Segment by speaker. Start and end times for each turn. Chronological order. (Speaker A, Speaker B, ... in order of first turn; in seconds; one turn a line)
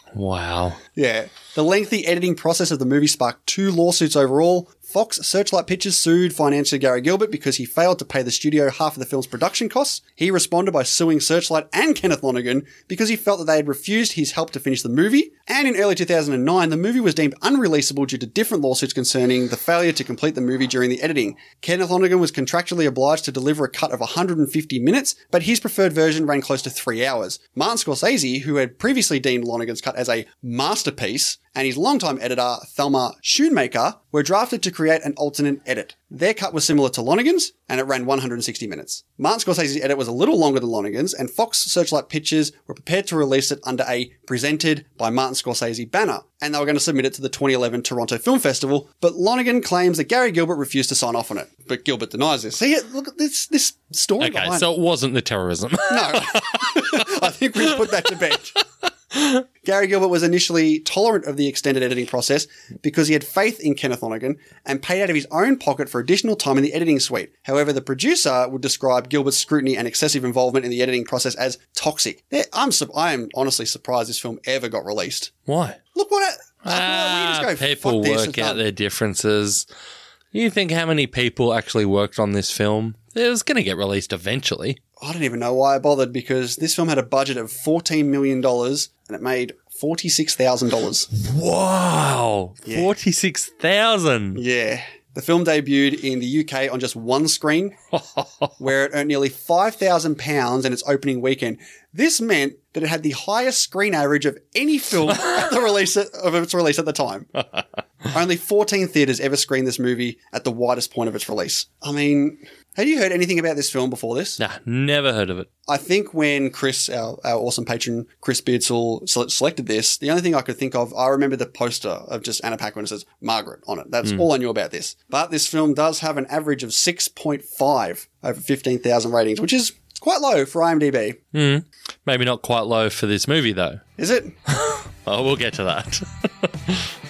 Speaker A: 0.1-0.8
Speaker B: 1.0-54.7
Speaker A: 54.2-56.9
Speaker B: 55.9-58.6
Speaker B: 59.6-75.3
Speaker A: 75.5-75.8
Speaker B: 76.0-78.6
Speaker A: 76.7-79.7
Speaker A: 80.3-84.8
Speaker B: 85.0-91.1
Speaker A: 91.2-94.4
Speaker B: 94.3-97.8
Speaker A: 98.2-98.5
Speaker B: 98.6-107.4
Speaker B: 108.1-114.4
Speaker A: 114.4-115.5
Speaker B: 115.7-131.2
Speaker A: 131.3-133.8
Speaker B: 134.0-134.3
Speaker A: 134.5-136.9